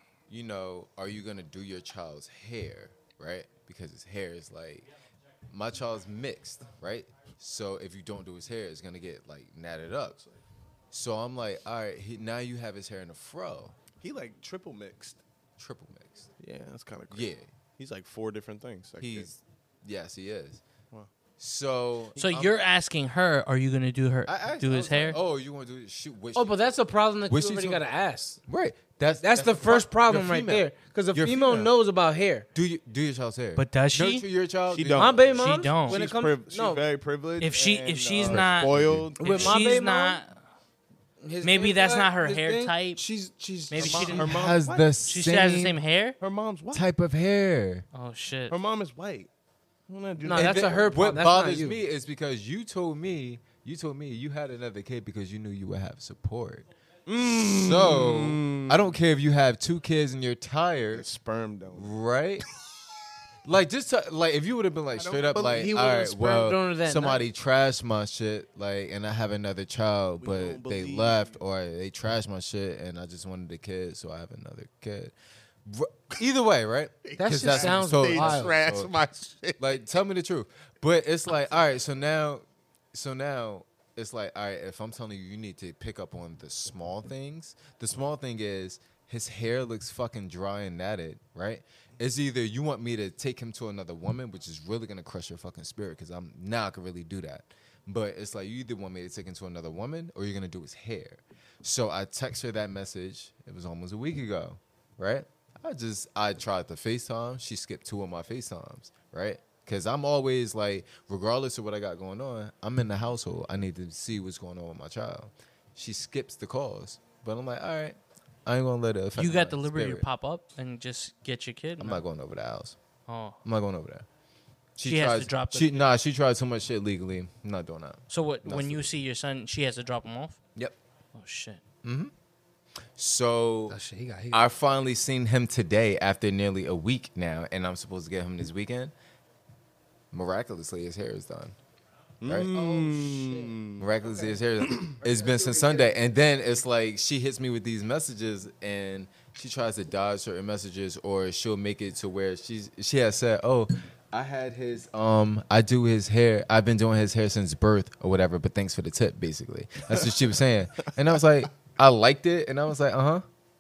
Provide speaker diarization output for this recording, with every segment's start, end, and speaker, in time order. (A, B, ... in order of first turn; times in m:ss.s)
0:00.3-0:04.9 A
0:05.5-0:10.2 A
0:10.9-0:13.8 A
0:14.0-0:15.2 B
0:15.6-0:16.3 A
0:16.4-0:19.3 B
0:17.1-0:17.5 A
0:19.0-0:20.6 A
0:21.4-0:22.6 A
0:22.2-0:25.2 C
0:24.3-0:26.8 A
0:26.4-0:28.4 D
0:27.3-0:27.8 A
0:28.5-0:31.7 A
0:29.2-0:32.5 D
0:32.6-0:35.5 A
0:33.6-0:34.3 C
0:34.7-0:35.3 B
0:34.9-0:36.8 D
0:35.3-0:36.0 C
0:35.9-0:39.5 B
0:37.4-0:40.4 C
0:38.3-0:39.6 A
0:39.2-0:40.2 D
0:41.2-0:44.2 D
0:41.4-0:43.0 C
0:43.7-0:46.2 C
0:43.8-0:44.9 B
0:44.1-0:45.8 A
0:46.2-0:46.8 B
0:46.7-0:47.9 A
0:47.9-0:48.5 C
0:48.5-0:49.3 B
0:49.9-0:51.3 B
0:50.2-0:51.8 D
0:50.3-0:56.6 A
0:57.1-0:58.9 B
0:57.2-1:01.1 A
1:00.9-1:01.9 B
1:01.7-1:02.5 A
1:03.4-1:18.9 A
1:05.0-1:05.8 B
1:05.5-1:07.3 D
1:10.2-1:11.3 B
1:17.0-1:19.6 B
1:17.2-1:18.6 D
1:19.6-2:00.1 A
1:59.2-2:02.0 C
2:01.8-2:02.8 A
2:03.1-2:03.4 C
2:03.4-2:04.1 A
2:04.8-2:08.9 A
2:04.8-2:05.8 C
2:08.1-2:10.4 C
2:11.1-2:11.6 C
2:11.8-2:12.1 A
2:13.0-2:13.8 A
2:13.7-2:14.4 D
2:14.3-2:18.9 A
2:20.1-2:21.6 A
2:22.2-2:23.9 B
2:22.2-2:22.5 A
2:22.5-2:24.4 D
2:23.8-2:43.2 A
2:24.6-2:24.9 B
2:25.0-2:26.1 D